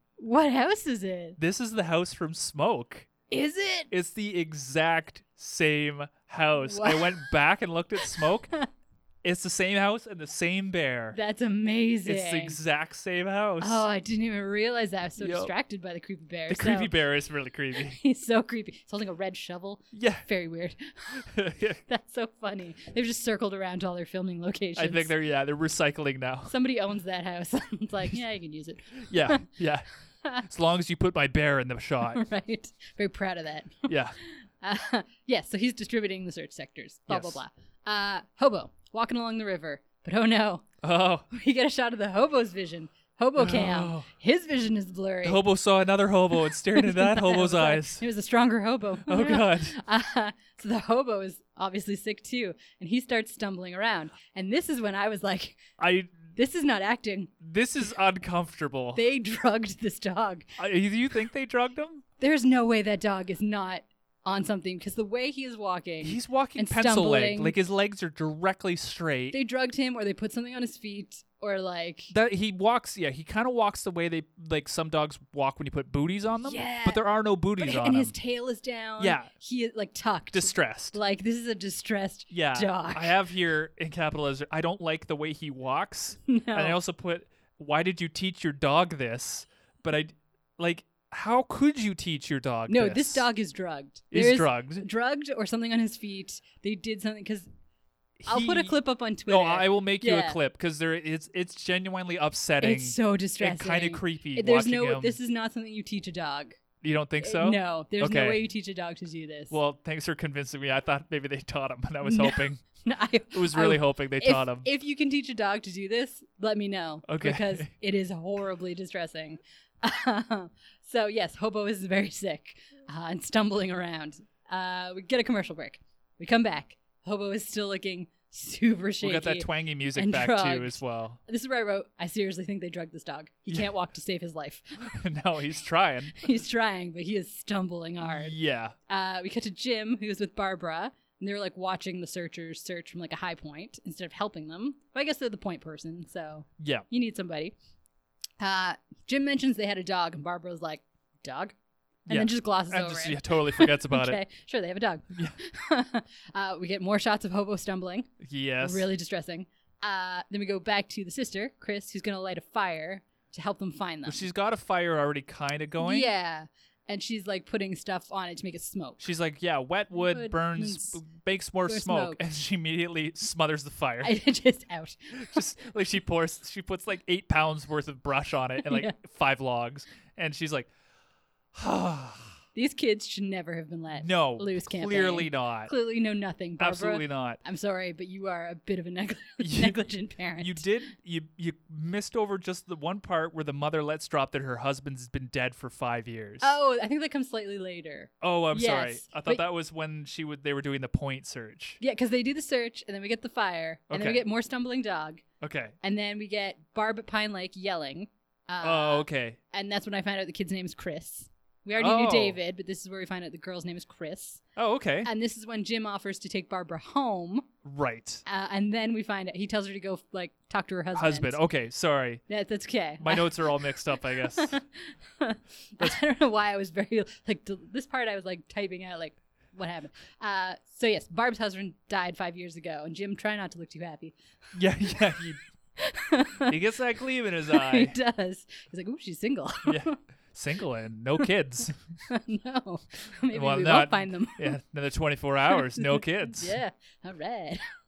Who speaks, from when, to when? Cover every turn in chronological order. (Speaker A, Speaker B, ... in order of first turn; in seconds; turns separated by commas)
Speaker A: 0.2-1.4, Speaker B: 1.4-3.1, Speaker A: 3.3-3.9, Speaker B: 3.9-8.5, Speaker A: 6.7-7.3, Speaker A: 8.1-8.7, Speaker B: 9.2-11.2, Speaker A: 11.1-12.6, Speaker B: 12.1-13.8, Speaker A: 13.6-16.9, Speaker B: 15.2-15.5, Speaker B: 16.5-18.0, Speaker A: 17.9-21.3, Speaker B: 19.9-20.3, Speaker B: 21.3-21.8, Speaker A: 21.9-25.1, Speaker B: 24.8-26.5, Speaker A: 26.5-29.5, Speaker B: 29.1-29.9, Speaker B: 30.4-32.2, Speaker A: 32.1-40.7, Speaker B: 33.9-34.2, Speaker B: 37.1-37.4, Speaker B: 40.8-41.3, Speaker A: 41.3-45.4, Speaker B: 43.4-44.1, Speaker B: 45.2-48.0, Speaker A: 46.7-55.6, Speaker B: 49.1-49.8, Speaker B: 55.8-56.3, Speaker A: 56.3-57.3, Speaker B: 57.4-59.0, Speaker A: 59.0-60.5, Speaker B: 60.6-62.0, Speaker A: 62.2-67.6, Speaker B: 66.0-69.4, Speaker A: 69.3-72.1, Speaker B: 72.1-78.1, Speaker A: 76.4-83.2, Speaker B: 79.0-79.3, Speaker B: 80.3-81.0, Speaker B: 82.3-93.2, Speaker A: 86.3-86.8, Speaker A: 92.7-97.5, Speaker B: 94.1-94.8, Speaker B: 98.2-105.2, Speaker A: 98.3-100.4, Speaker A: 102.6-106.6, Speaker B: 106.8-108.4, Speaker A: 107.2-109.6, Speaker B: 109.5-112.6, Speaker A: 112.0-134.9, Speaker B: 113.3-114.7, Speaker B: 117.1-117.7, Speaker B: 129.0-131.2, Speaker B: 134.8-136.2, Speaker A: 136.2-138.3, Speaker B: 138.1-138.8, Speaker A: 138.9-147.5, Speaker B: 146.6-146.9, Speaker A: 148.4-151.6, Speaker A: 152.1-164.3, Speaker B: 152.1-154.2, Speaker B: 158.2-158.9, Speaker B: 164.1-166.1, Speaker A: 165.8-169.0, Speaker B: 169.0-174.2, Speaker A: 169.9-171.0, Speaker A: 171.6-172.2, Speaker A: 174.0-175.4, Speaker B: 175.2-180.7, Speaker A: 178.6-178.9, Speaker B: 181.5-182.4, Speaker A: 182.6-190.6, Speaker B: 183.9-185.7, Speaker B: 186.6-187.4, Speaker B: 189.4-189.8, Speaker B: 190.4-196.6, Speaker A: 196.4-199.4, Speaker B: 198.2-201.8, Speaker A: 201.8-205.2, Speaker B: 203.9-204.2, Speaker B: 205.4-205.8, Speaker A: 205.8-214.4, Speaker B: 208.6-209.4, Speaker B: 211.8-212.4, Speaker B: 214.6-215.1, Speaker A: 215.0-217.5, Speaker B: 217.6-218.2, Speaker A: 218.2-221.4, Speaker B: 220.9-222.2, Speaker A: 222.3-234.2, Speaker B: 223.0-224.6, Speaker B: 234.5-235.4, Speaker A: 235.8-236.6, Speaker B: 236.5-238.0, Speaker A: 237.5-239.9, Speaker B: 239.7-241.8, Speaker A: 242.1-244.6, Speaker B: 243.3-246.6, Speaker A: 245.5-247.6